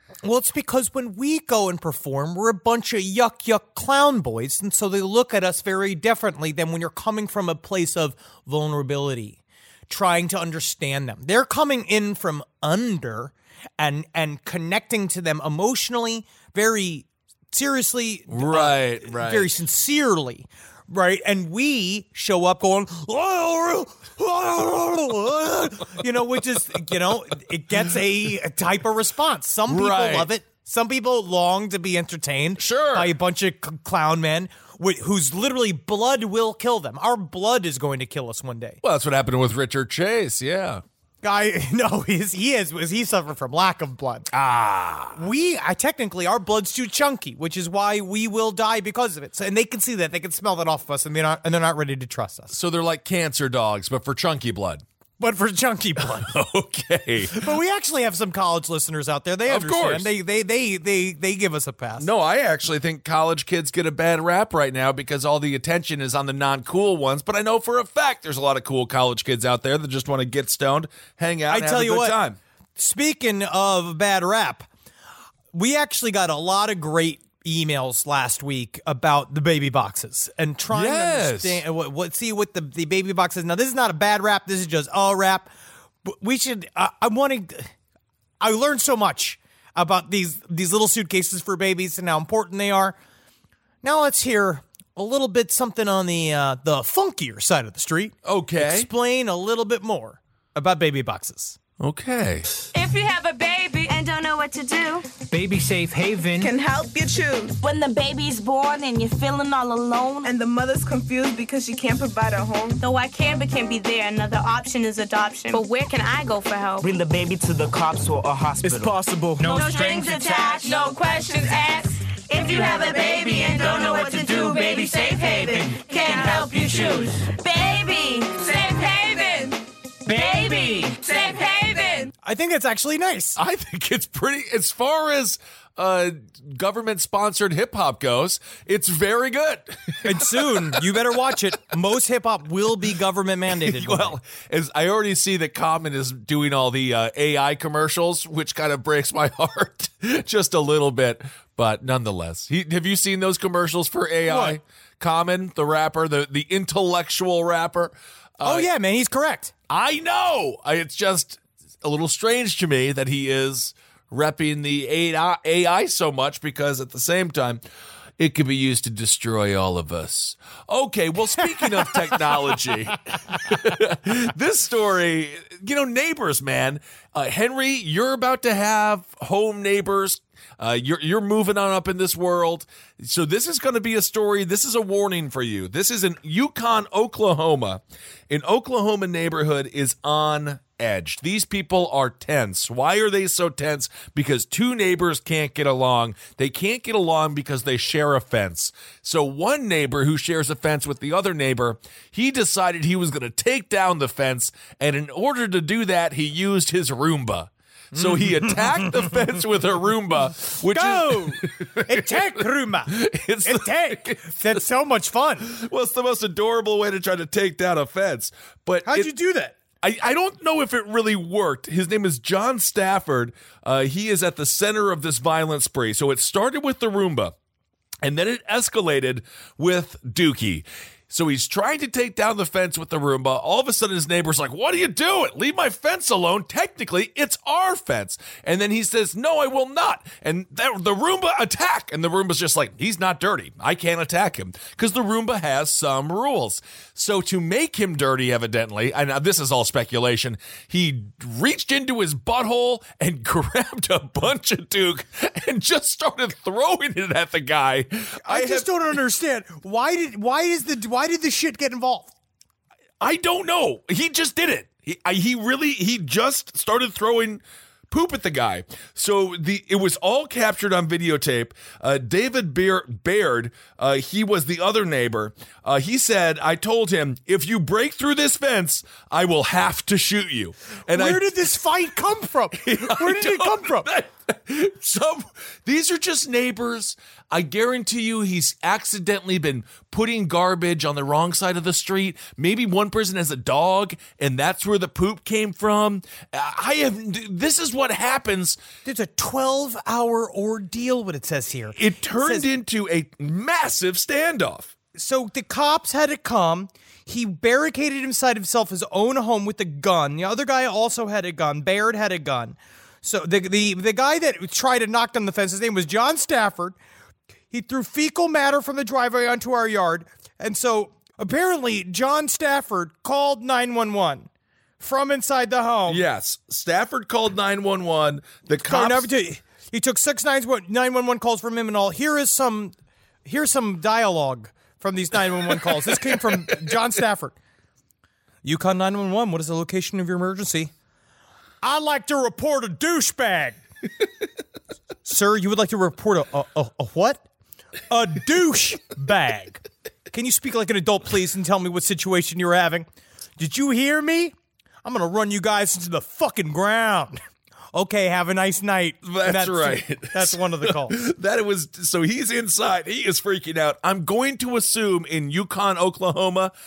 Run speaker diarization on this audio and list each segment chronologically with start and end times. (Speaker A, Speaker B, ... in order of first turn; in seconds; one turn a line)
Speaker A: 0.2-38.8
Speaker B: 18.3-19.5
Speaker B: 29.7-30.3
Speaker B: 32.6-33.1
Speaker B: 38.8-40.8
Speaker A: 41.2-44.3
Speaker B: 44.3-45.2
Speaker A: 45.1-52.5
Speaker B: 52.5-54.8
Speaker A: 55.2-56.4
Speaker B: 56.0-57.5
Speaker A: 57.3-62.1
Speaker B: 59.5-60.1
Speaker B: 62.0-72.4
Speaker A: 71.5-72.2
Speaker A: 72.8-74.7
Speaker A: 75.5-85.5
Speaker B: 80.7-81.6
Speaker A: 86.0-87.7
Speaker A: 88.4-93.0
Speaker A: 93.8-101.6
Speaker B: 98.2-98.9
Speaker B: 101.8-102.5
Speaker C: 102.7-105.1
Speaker D: 105.3-106.5
Speaker E: 106.4-107.6
Speaker C: 107.6-110.3
Speaker E: 110.2-112.8
Speaker C: 112.8-116.8
Speaker D: 116.8-120.6
Speaker C: 119.4-132.1
Speaker E: 120.7-121.8
Speaker D: 122.5-127.0
Speaker D: 130.1-131.0
Speaker A: 132.2-133.4
Speaker B: 133.4-141.4
Speaker A: 140.0-144.2
Speaker B: 143.5-158.7
Speaker A: 154.3-154.6
Speaker A: 158.4-159.5
Speaker B: 159.7-167.6
Speaker B: 168.2-214.6
Speaker A: 171.7-172.2
Speaker A: 207.9-209.0
Speaker A: 210.5-215.5
Speaker B: 215.4-219.1
Speaker A: 218.8-219.6
Speaker B: 219.8-227.3
Speaker B: 228.0-258.7
Speaker A: 258.2-262.1
Speaker B: 263.0-281.3
Speaker A: 280.9-283.9
Speaker B: 282.6-298.6
Speaker A: 298.9-302.5
Speaker B: 301.8-304.7
Speaker A: 304.9-316.8
Speaker A: 317.5-324.3
Speaker A: 324.8-326.0
Speaker B: 325.9-329.1
Speaker A: 328.6-332.7
Speaker A: 333.3-337.4
Speaker B: 335.5-336.8
Speaker A: 338.4-340.7
Speaker A: 341.6-343.6
Speaker A: 345.1-347.2
Speaker A: 347.9-352.9
Speaker A: 353.4-357.2
Speaker A: 357.7-361.0
Speaker B: 359.0-366.5